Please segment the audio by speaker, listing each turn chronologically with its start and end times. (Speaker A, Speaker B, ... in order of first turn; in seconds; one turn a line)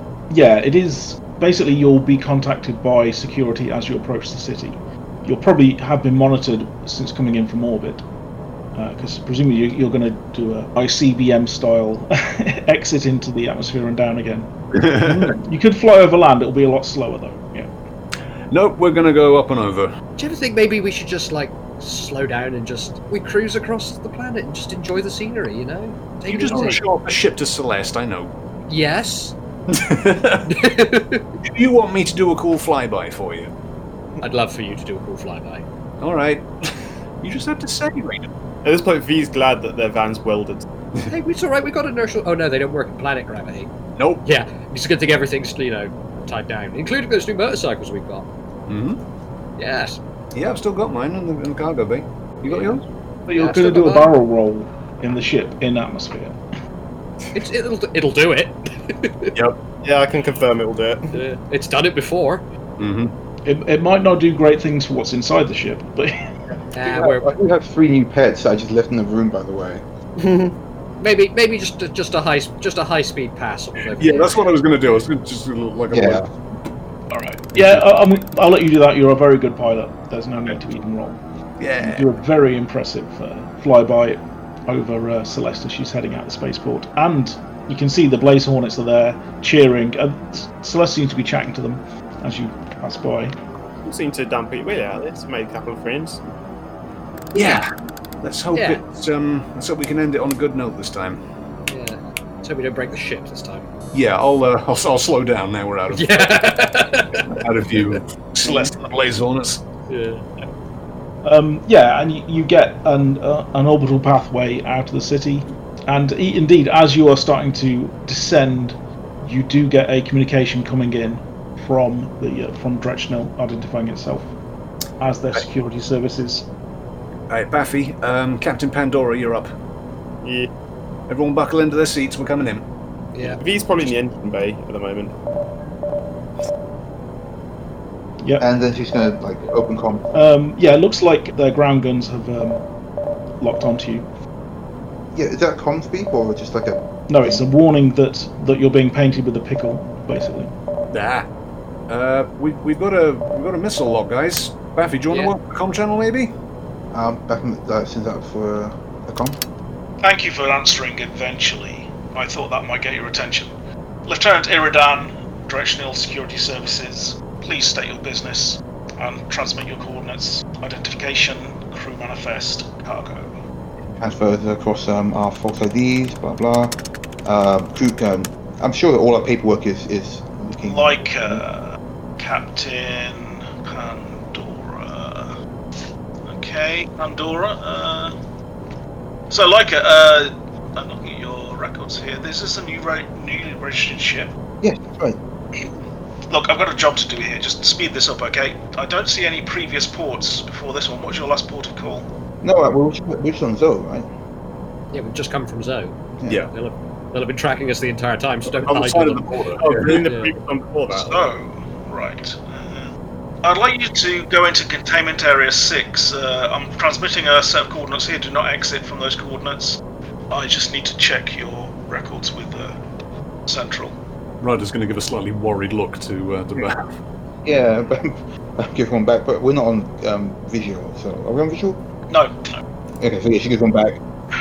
Speaker A: 0.3-8.0
Speaker A: 8.8-17.7
Speaker B: 14.8-15.4
Speaker B: 18.5-19.9
Speaker C: 20.2-26.8
Speaker B: 26.3-28.3
Speaker D: 26.5-26.8
Speaker C: 28.7-29.4
Speaker B: 29.7-30.5
Speaker C: 30.5-31.3
Speaker B: 31.4-33.5
Speaker C: 34.2-35.6
Speaker B: 36.0-38.3
Speaker D: 38.6-40.7
Speaker C: 41.1-43.7
Speaker B: 44.0-44.2
Speaker C: 44.2-48.3
Speaker B: 48.7-49.0
Speaker C: 49.6-50.0
Speaker B: 50.3-52.8
Speaker C: 52.5-52.8
Speaker A: 53.3-56.4
Speaker C: 53.4-54.1
Speaker C: 57.3-59.3
Speaker D: 59.8-61.2
Speaker C: 61.1-62.5
Speaker B: 62.8-63.1
Speaker A: 63.5-66.2
Speaker C: 66.7-67.3
Speaker E: 66.8-69.8
Speaker D: 70.2-70.6
Speaker C: 71.0-74.5
Speaker B: 74.0-76.3
Speaker E: 75.9-76.3
Speaker A: 77.1-81.2
Speaker B: 81.6-82.1
Speaker A: 81.8-93.3
Speaker D: 93.8-96.2
Speaker B: 97.3-97.7
Speaker B: 98.2-101.2
Speaker C: 98.5-98.8
Speaker C: 101.7-103.7
Speaker B: 103.9-106.6
Speaker C: 105.9-107.4
Speaker B: 107.3-109.6
Speaker A: 108.4-108.8
Speaker C: 109.9-110.2
Speaker A: 111.2-124.3
Speaker A: 125.0-126.5
Speaker B: 127.3-129.5
Speaker D: 130.2-130.5
Speaker B: 131.1-132.7
Speaker C: 133.1-133.4
Speaker D: 133.2-135.1
Speaker A: 138.2-138.4
Speaker E: 138.4-140.1
Speaker A: 140.1-142.6
Speaker A: 143.4-144.1
Speaker E: 145.1-147.4
Speaker A: 147.1-150.5
Speaker B: 150.9-151.3
Speaker B: 151.9-156.3
Speaker E: 156.9-159.4
Speaker A: 160.0-163.5
Speaker A: 164.1-173.4
Speaker E: 173.9-181.4
Speaker A: 180.7-185.4
Speaker A: 186.2-188.2
Speaker A: 189.3-194.3
Speaker E: 194.6-195.2
Speaker A: 196.3-202.1
Speaker E: 202.4-204.1
Speaker C: 204.9-206.0
Speaker E: 206.2-206.5
Speaker C: 206.5-210.3
Speaker B: 208.5-210.1
Speaker D: 209.6-211.2
Speaker A: 210.9-212.9
Speaker A: 213.4-222.8
Speaker A: 223.5-224.0
Speaker B: 224.4-226.9
Speaker E: 227.4-231.8
Speaker A: 232.1-232.6
Speaker E: 233.0-234.0